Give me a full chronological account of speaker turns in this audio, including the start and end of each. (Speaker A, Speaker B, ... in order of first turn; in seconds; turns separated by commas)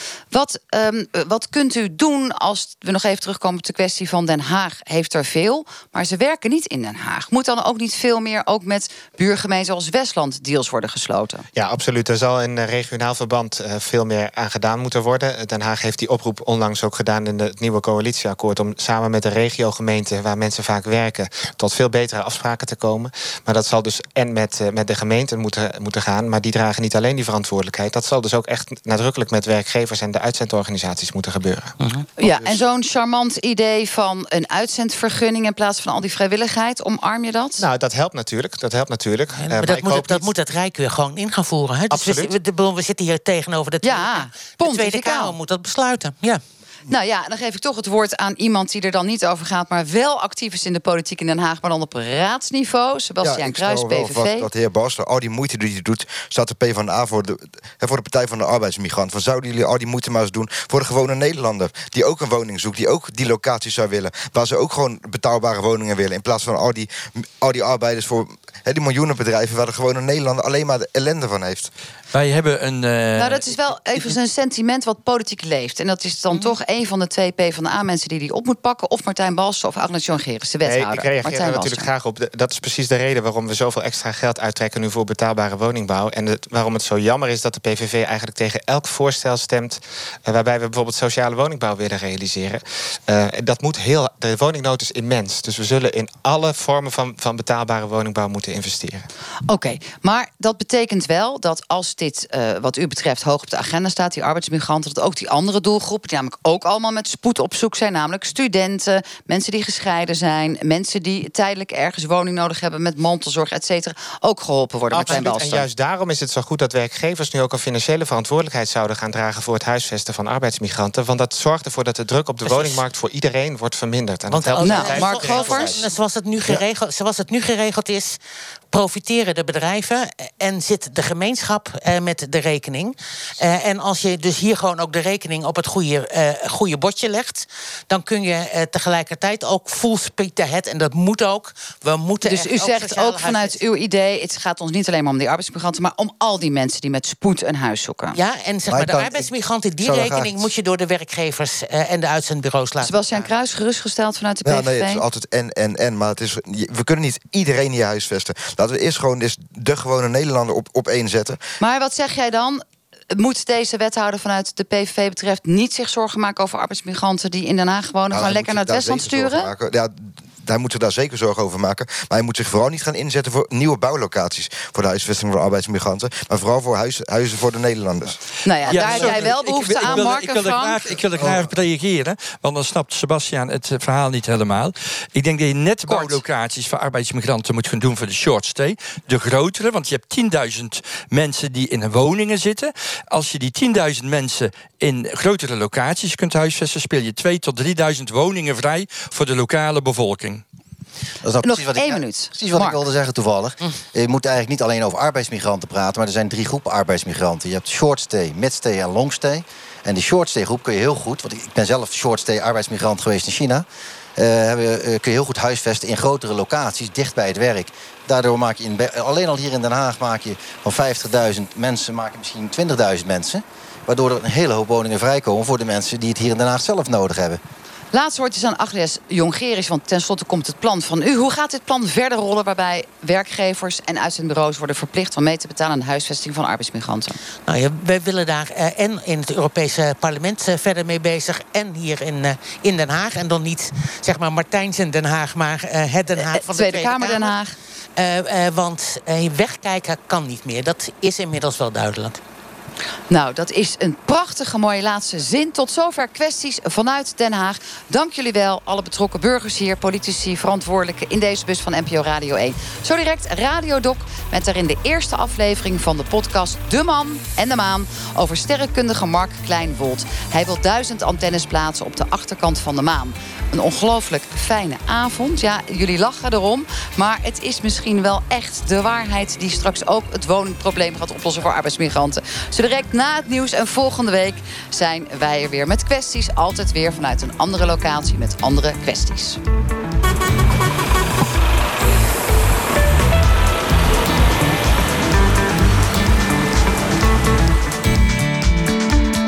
Speaker A: 0.3-11.4, Speaker B: 11.6-31.7, Speaker C: 31.8-32.0, Speaker A: 32.2-37.6, Speaker B: 37.6-40.3, Speaker C: 39.4-46.4, Speaker B: 41.9-42.3, Speaker A: 43.8-45.3, Speaker A: 46.9-54.5, Speaker D: 53.2-71.7, Speaker E: 72.1-73.6, Speaker A: 73.2-81.9, Speaker B: 80.6-99.1, Speaker A: 99.5-115.7, Speaker B: 114.9-125.9, Speaker C: 122.5-122.8, Speaker C: 124.3-128.2, Speaker A: 124.6-125.8, Speaker C: 128.7-143.6, Speaker A: 142.2-148.2, Speaker C: 148.1-153.3, Speaker F: 148.7-149.3, Speaker F: 149.8-150.5, Speaker A: 152.8-155.0, Speaker D: 154.4-161.4, Speaker A: 161.6-169.5, Speaker D: 168.1-179.3, Speaker A: 178.4-181.0, Speaker E: 178.6-200.4, Speaker D: 181.1-181.5, Speaker A: 185.8-186.2, Speaker F: 201.2-213.6, Speaker A: 201.4-202.8, Speaker F: 214.2-227.4, Speaker A: 227.9-237.2, Speaker C: 237.4-247.4, Speaker A: 246.2-247.6, Speaker C: 248.0-252.2, Speaker A: 253.1-289.4